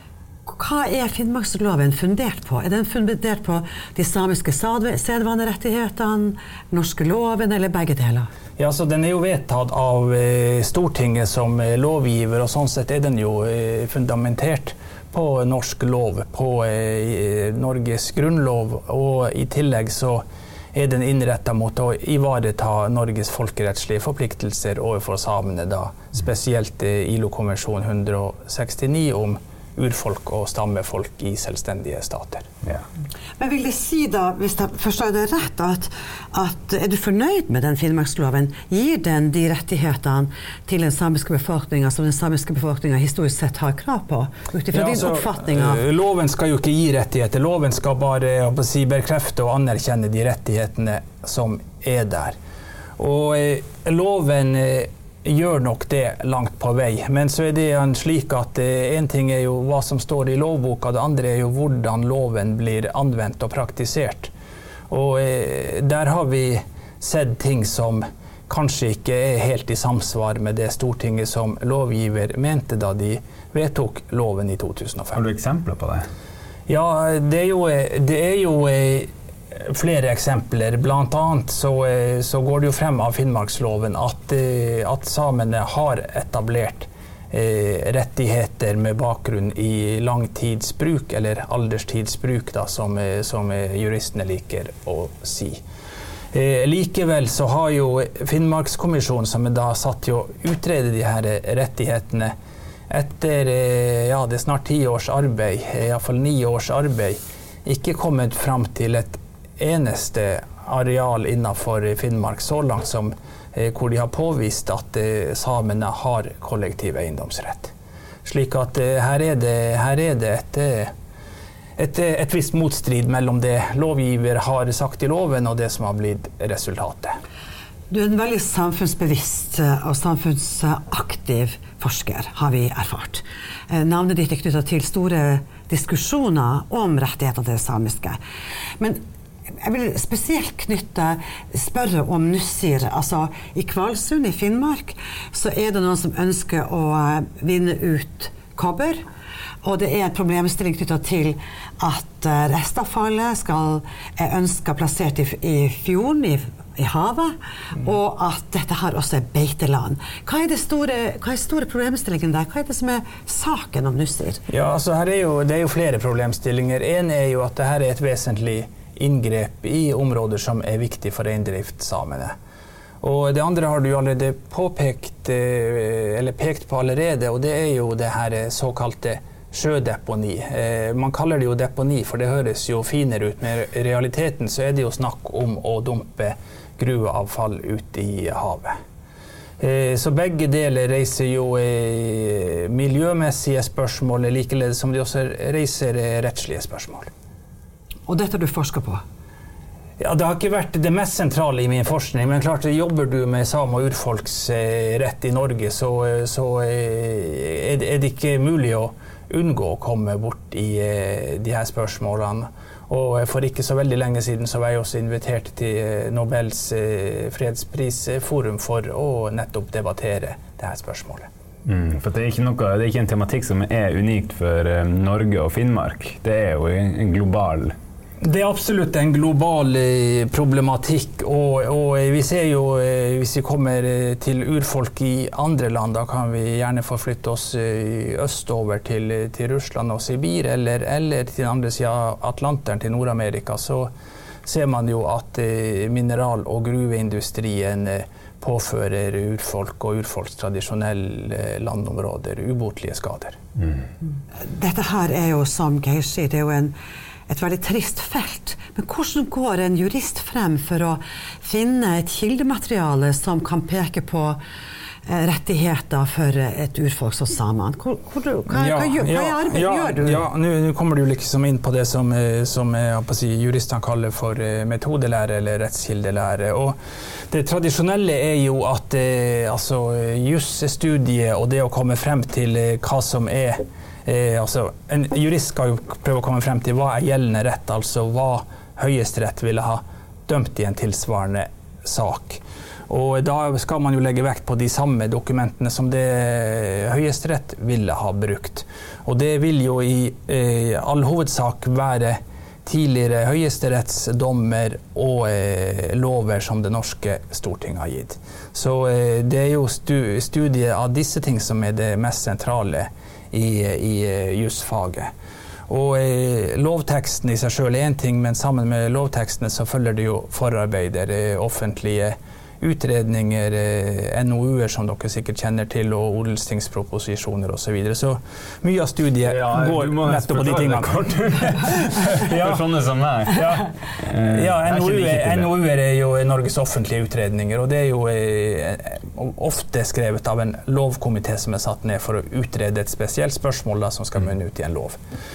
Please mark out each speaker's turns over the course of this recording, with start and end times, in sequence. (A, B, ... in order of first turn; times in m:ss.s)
0:00.5-0:08.3 A
0:08.6-0:32.5 B
0:33.4-0:45.8 A
0:44.7-0:52.4 B
0:53.0-1:04.3 B
1:04.9-1:15.2 B
1:15.1-1:16.1 C
1:16.7-1:35.6 B
1:36.3-1:42.3 B
1:42.9-1:57.7 B
1:58.2-2:00.9 B
2:01.8-2:07.2 B
2:07.9-2:18.2 A
2:19.6-2:29.0 A
2:29.6-2:44.4 A
2:44.5-2:52.3 B
2:53.0-3:08.7 B
3:09.6-3:17.1 B
3:18.1-3:19.0 A
3:20.0-3:41.3 B
3:41.6-3:47.7 C
3:48.2-4:03.9 B
4:04.4-4:13.4 B
4:14.4-4:16.7 A
4:17.3-4:24.4 A
4:25.0-4:30.2 A
4:28.5-4:36.8 B
4:37.3-5:15.1 B
5:15.7-5:32.7 B
5:29.2-5:35.5 C
5:33.2-5:45.0 B